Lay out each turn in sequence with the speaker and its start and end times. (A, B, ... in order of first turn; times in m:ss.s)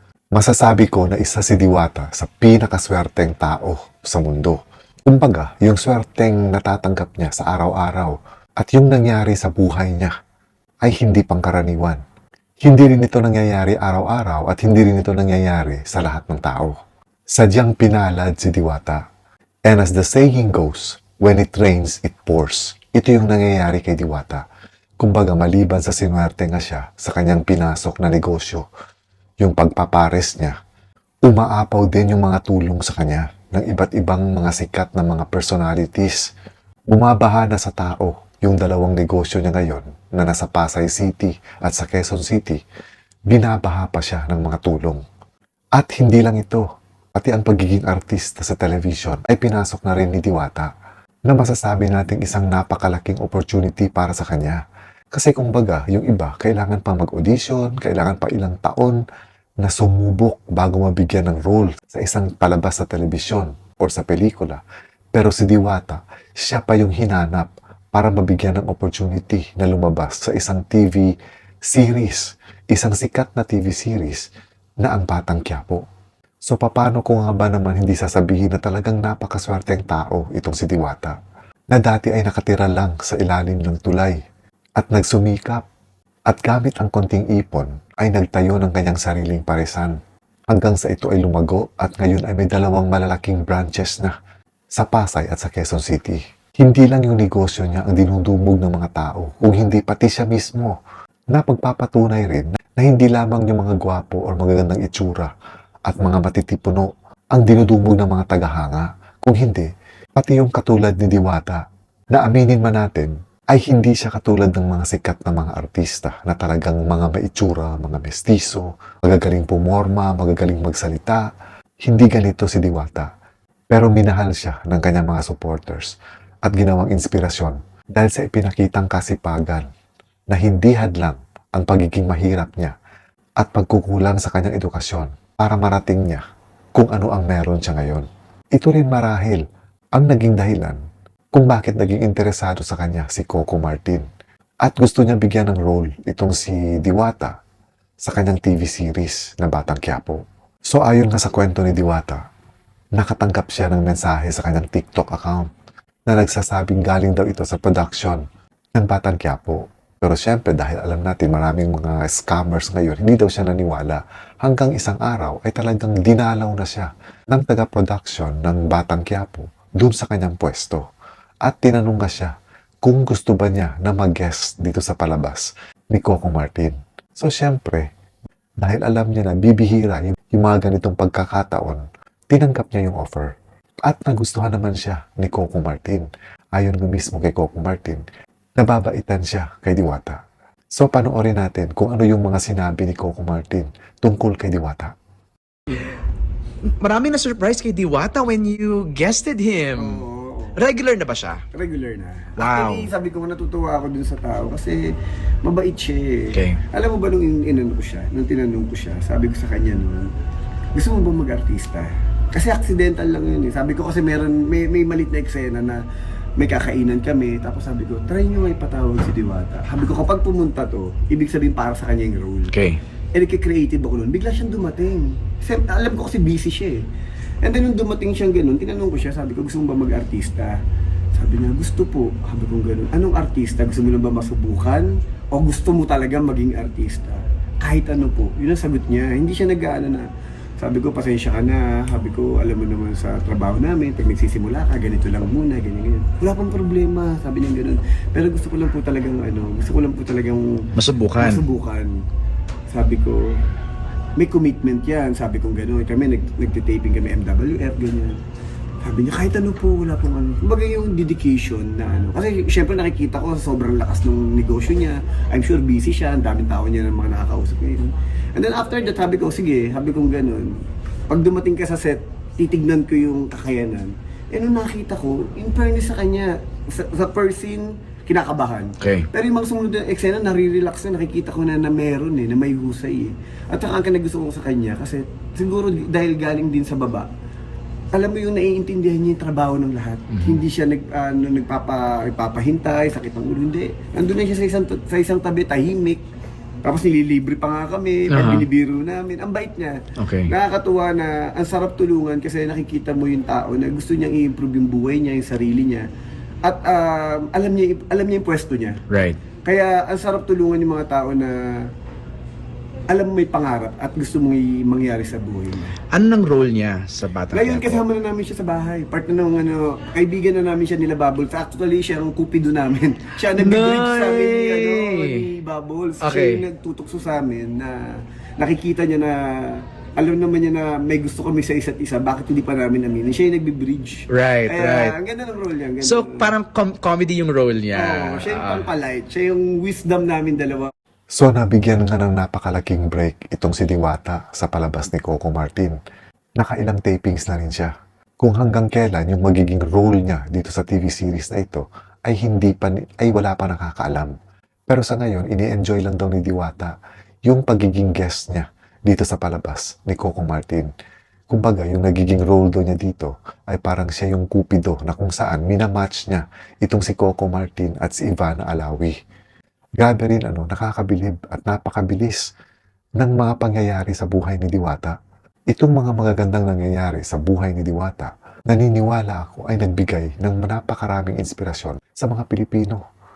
0:00.3-0:10.1 A
0:10.8-0:12.0 A
0:12.6-0:16.8 A
0:17.3-0:19.0 A
0:19.7-0:24.4 A
0:25.0-0:28.7 A
0:29.4-0:30.6 A
0:31.2-0:36.3 A
0:36.9-0:42.6 A
0:43.3-0:45.0 A
0:45.8-0:46.6 A
0:47.2-0:50.7 A
0:51.3-0:54.6 A
0:55.1-0:59.0 A
0:59.6-1:04.6 A
1:05.1-1:11.1 A
1:11.7-1:14.3 A
1:14.8-1:15.8 A
1:16.5-1:21.2 A
1:21.7-1:24.2 A
1:24.8-1:25.7 A
1:26.3-1:30.0 A
1:30.5-1:34.2 A
1:34.8-1:40.8 A
1:41.3-1:45.3 A
1:45.9-2:01.3 A
2:01.8-2:03.1 A
2:03.7-2:09.7 A
2:10.3-2:12.8 A
2:13.4-2:16.2 A
2:16.8-2:19.4 A
2:20.0-2:20.8 A
2:21.3-2:24.0 A
2:24.6-2:27.4 A
2:28.0-2:32.2 A
2:33.0-2:35.5 A
2:36.1-2:38.2 A
2:38.8-2:50.9 A
2:51.4-2:57.9 A
2:58.6-3:03.4 A
3:03.9-3:08.0 A
3:08.6-3:10.2 A
3:10.8-3:14.9 A
3:16.7-3:20.0 B
3:19.8-3:20.7 C
3:20.6-3:21.4 B
3:21.5-3:24.8 C
3:22.4-3:22.9 B
3:25.4-3:30.1 C
3:26.3-3:26.6 B
3:30.8-3:35.8 C
3:36.4-3:42.6 C
3:42.5-3:42.8 B
3:43.2-3:46.8 C
3:47.4-3:50.6 C
3:51.2-4:00.1 C
4:00.6-4:11.9 C
4:10.8-4:11.4 B
4:12.7-4:13.2 C
4:14.2-4:18.1 C
4:18.8-4:30.5 C
4:31.1-4:47.1 C
4:38.8-4:39.1 B
4:47.9-4:56.0 C
4:50.1-4:50.4 B
4:56.6-5:05.9 C
4:58.1-4:58.5 B
5:00.0-5:00.4 B
5:06.4-5:08.8 C
5:08.9-5:09.2 B
5:09.4-5:11.7 C
5:12.9-5:15.8 C
5:15.9-5:17.8 B
5:17.3-5:27.8 C
5:23.2-5:25.3 B
5:26.0-5:26.5 B
5:28.4-5:36.4 C
5:34.1-5:35.0 B
5:35.8-5:38.7 B
5:37.7-5:40.7 C
5:41.2-5:45.8 A
5:46.4-5:54.1 A
5:54.7-5:56.7 A
5:57.3-6:00.7 A
6:01.3-6:09.0 A
6:09.8-6:12.3 A
6:13.0-6:15.0 A
6:15.5-6:22.8 A